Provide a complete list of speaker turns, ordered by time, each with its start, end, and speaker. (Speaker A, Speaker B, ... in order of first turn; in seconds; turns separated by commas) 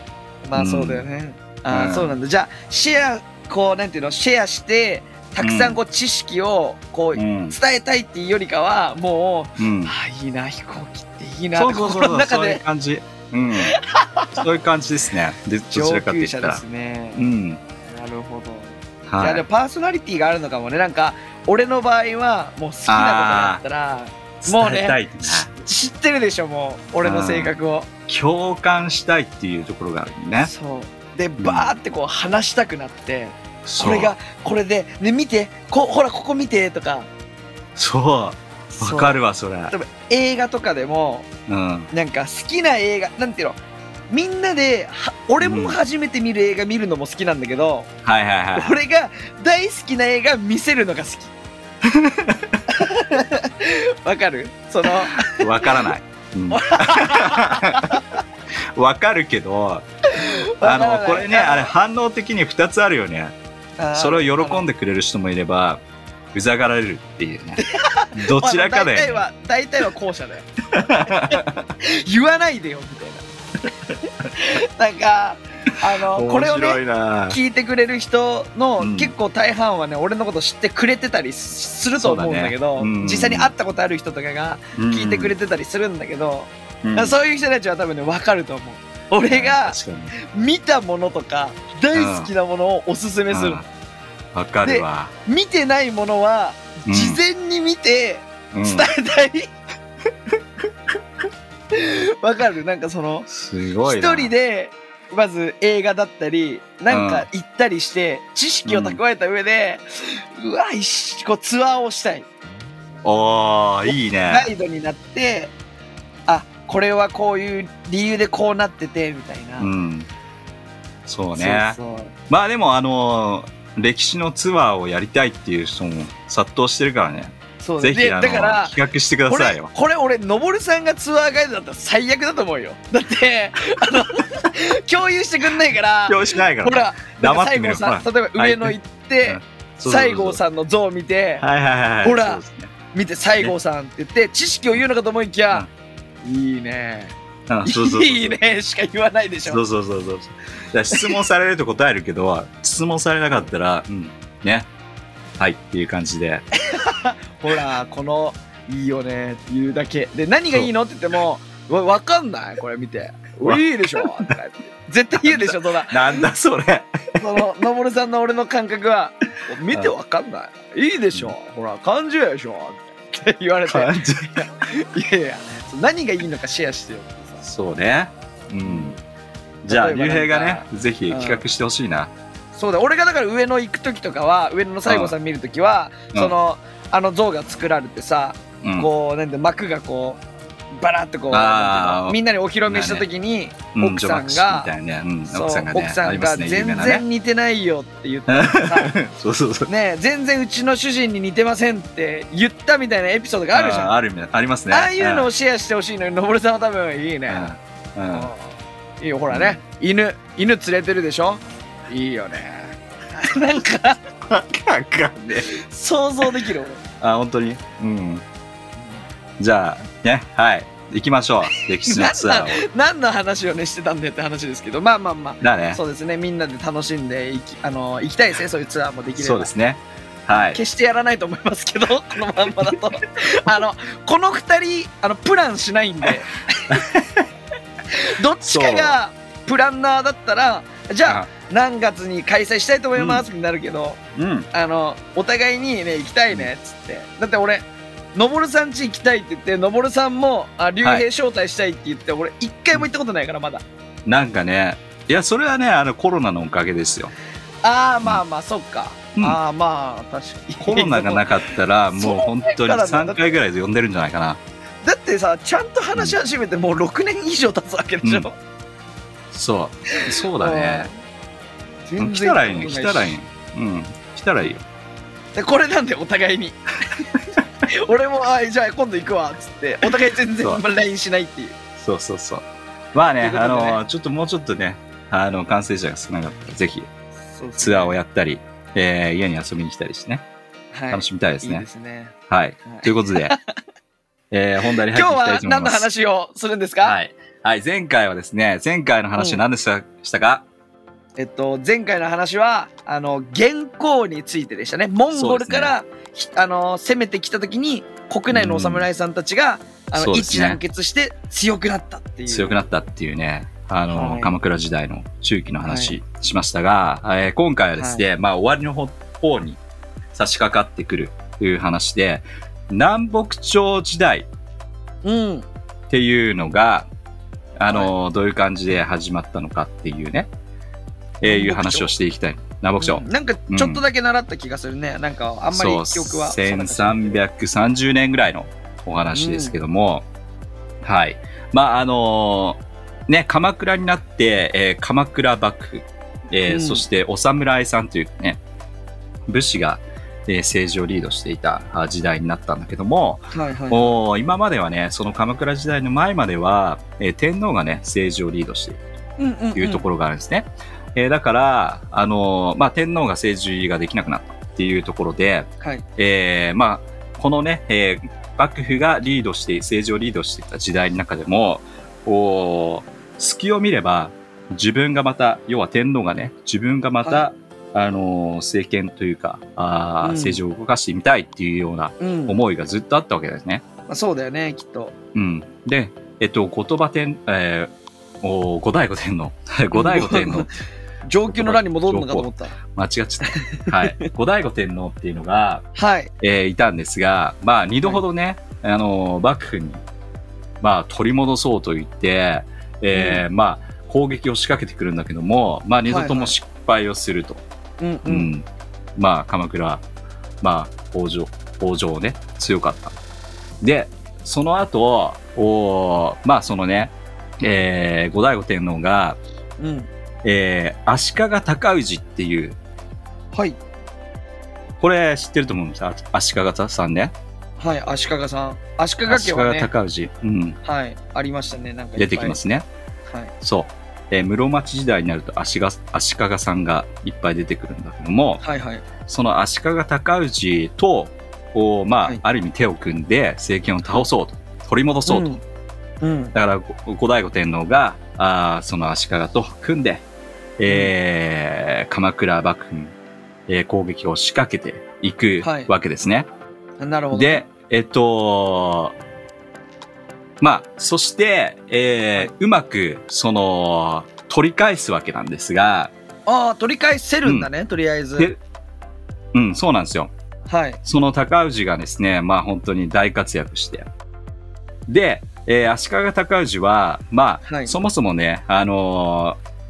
Speaker A: 0.4-12.6, Speaker B: 0.5-1.0, Speaker B: 1.7-2.2, Speaker B: 5.4-5.8, Speaker B: 7.2-7.6, Speaker B: 9.6-9.9, Speaker B: 11.6-13.8, Speaker A: 13.6-14.5, Speaker B: 14.3-16.6, Speaker A: 15.7-17.3, Speaker B: 17.1-17.6, Speaker A: 17.9-27.9, Speaker B: 19.1-19.5, Speaker B: 22.9-23.6, Speaker B: 24.4-25.5, Speaker B: 27.0-27.6, Speaker B: 28.1-30.5, Speaker A: 30.4-37.1, Speaker B: 31.4-31.8, Speaker B: 33.6-34.1, Speaker B: 37.8-39.7, Speaker A: 38.7-39.2, Speaker A: 39.7-41.3, Speaker B: 41.5-41.9, Speaker A: 41.9-43.6, Speaker A: 44.1-47.9, Speaker B: 45.4-45.8, Speaker B: 48.0-48.8, Speaker A: 48.5-51.3, Speaker B: 51.8-52.6, Speaker A: 52.7-55.8, Speaker B: 54.9-58.0, Speaker A: 56.5-58.2, Speaker B: 58.8-59.9, Speaker A: 60.1-61.7, Speaker B: 60.6-63.4, Speaker A: 63.8-64.7, Speaker B: 64.0-65.8, Speaker B: 66.3-67.6, Speaker A: 67.6-70.5, Speaker B: 68.2-69.2, Speaker B: 70.7-71.7, Speaker A: 71.0-73.3, Speaker A: 74.3-93.6, Speaker B: 76.0-77.4, Speaker B: 78.8-79.1, Speaker B: 82.0-83.5, Speaker B: 84.8-85.3, Speaker B: 86.8-87.2, Speaker B: 89.3-90.1, Speaker B: 91.9-92.3, Speaker B: 93.3-93.7, Speaker B: 94.3-95.1, Speaker A: 94.7-99.5, Speaker B: 96.9-97.2, Speaker B: 98.5-98.9, Speaker A: 101.7-103.3, Speaker B: 103.3-104.3, Speaker A: 103.8-112.3, Speaker B: 106.9-107.3, Speaker B: 108.7-109.0, Speaker B: 113.0-114.5, Speaker A: 113.9-115.5, Speaker A: 116.3-119.7, Speaker B: 119.6-120.1, Speaker B: 121.1-121.8, Speaker A: 121.3-122.1, Speaker B: 122.3-129.7, Speaker A: 127.6-128.8, Speaker A: 129.3-141.4, Speaker B: 136.1-140.4, Speaker B: 141.4-142.7, Speaker A: 142.0-142.4, Speaker A: 142.9-145.7, Speaker A: 146.2-147.1, Speaker B: 147.5-148.4, Speaker A: 147.7-149.6, Speaker B: 149.5-154.7, Speaker A: 150.9-151.2, Speaker B: 155.4-156.5, Speaker A: 156.6-166.3, Speaker B: 163.4-164.3, Speaker B: 165.2-167.2, Speaker A: 167.2-177.4, Speaker B: 173.7-174.4, Speaker B: 177.4-179.0, Speaker A: 178.6-179.0, Speaker B: 179.6-182.1, Speaker A: 179.7-181.4, Speaker A: 182.5-190.2, Speaker B: 184.9-185.2, Speaker B: 188.6-188.9, Speaker A: 190.8-194.7, Speaker B: 191.3-193.1, Speaker B: 193.7-197.1, Speaker A: 195.3-198.9, Speaker B: 198.3-199.7, Speaker A: 199.7-203.9, Speaker B: 203.5-205.3, Speaker A: 204.7-207.5, Speaker B: 207.3-208.3, Speaker A: 208.1-214.1, Speaker B: 209.3-209.6, Speaker B: 214.3-215.5, Speaker A: 215.5-216.8, Speaker B: 217.0-218.2, Speaker B: 219.4-222.6, Speaker A: 221.8-229.5, Speaker B: 225.4-225.8, Speaker B: 229.2-230.6, Speaker A: 230.3-236.8, Speaker B: 236.7-237.3, Speaker A: 237.9-244.0, Speaker B: 238.4-239.0, Speaker B: 243.0-243.2, Speaker B: 244.2-244.5, Speaker A: 244.5-253.6, Speaker B: 254.1-257.1, Speaker A: 257.6-263.4, Speaker B: 260.6-264.4, Speaker A: 264.8-268.3, Speaker B: 269.3-270.9, Speaker A: 269.9-270.9, Speaker A: 271.9-273.1, Speaker B: 272.0-274.6, Speaker A: 275.4-276.6, Speaker A: 277.7-281.6, Speaker B: 281.8-286.9, Speaker A: 283.2-283.8, Speaker A: 287.3-287.9, Speaker B: 287.6-290.2, Speaker A: 290.7-292.1, Speaker B: 290.9-291.6, Speaker B: 292.3-293.4, Speaker A: 292.6-293.4, Speaker B: 294.3-295.9, Speaker A: 294.7-297.0, Speaker B: 296.8-300.4, Speaker A: 301.2-312.6, Speaker B: 305.1-305.7, Speaker B: 308.3-308.9, Speaker B: 309.9-310.6, Speaker B: 312.3-319.6, Speaker A: 313.9-314.4, Speaker A: 315.6-316.0, Speaker A: 317.8-318.0, Speaker B: 320.1-324.3, Speaker A: 325.0-325.5, Speaker B: 325.9-326.9, Speaker B: 327.6-330.3, Speaker B: 331.2-333.8, Speaker A: 331.2-331.9, Speaker A: 332.8-337.2, Speaker B: 335.5-340.1, Speaker A: 339.1-339.6, Speaker B: 340.8-348.4, Speaker A: 346.5-346.9, Speaker B: 349.3-358.8, Speaker A: 353.3-354.0, Speaker A: 359.2-359.9, Speaker B: 359.6-383.6, Speaker A: 380.0-380.4, Speaker A: 382.0-382.4, Speaker A: 383.9-384.9, Speaker B: 385.1-390.5, Speaker A: 389.7-390.5, Speaker A: 391.1-392.6, Speaker B: 391.3-395.6, Speaker A: 393.3-394.1, Speaker A: 395.8-396.1, Speaker B: 396.2-399.8, Speaker B: 400.6-407.4, Speaker A: 402.9-403.2, Speaker A: 405.9-406.4, Speaker A: 407.8-408.3, Speaker B: 408.1-409.8, Speaker B: 410.4-413.0, Speaker B: 413.6-419.2, Speaker A: 419.6-419.9, Speaker B: 420.2-422.6, Speaker A: 423.3-423.6, Speaker B: 424.8-427.1, Speaker A: 427.6-429.7, Speaker B: 429.1-430.6, Speaker A: 430.6-432.4, Speaker B: 432.0-432.7, Speaker B: 433.4-438.4, Speaker A: 438.4-438.8, Speaker B: 439.1-445.3, Speaker A: 445.1-445.4, Speaker A: 446.0-446.4, Speaker B: 446.3-450.0, Speaker B: 450.6-452.9, Speaker A: 450.7-450.9, Speaker B: 453.5-456.3, Speaker A: 455.4-455.7, Speaker A: 456.8-457.4, Speaker B: 457.1-458.9, Speaker B: 460.4-465.9, Speaker A: 466.3-468.3, Speaker B: 469.3-470.1, Speaker A: 470.5-470.8, Speaker B: 470.8-473.9, Speaker B: 474.9-479.4, Speaker A: 477.5-477.7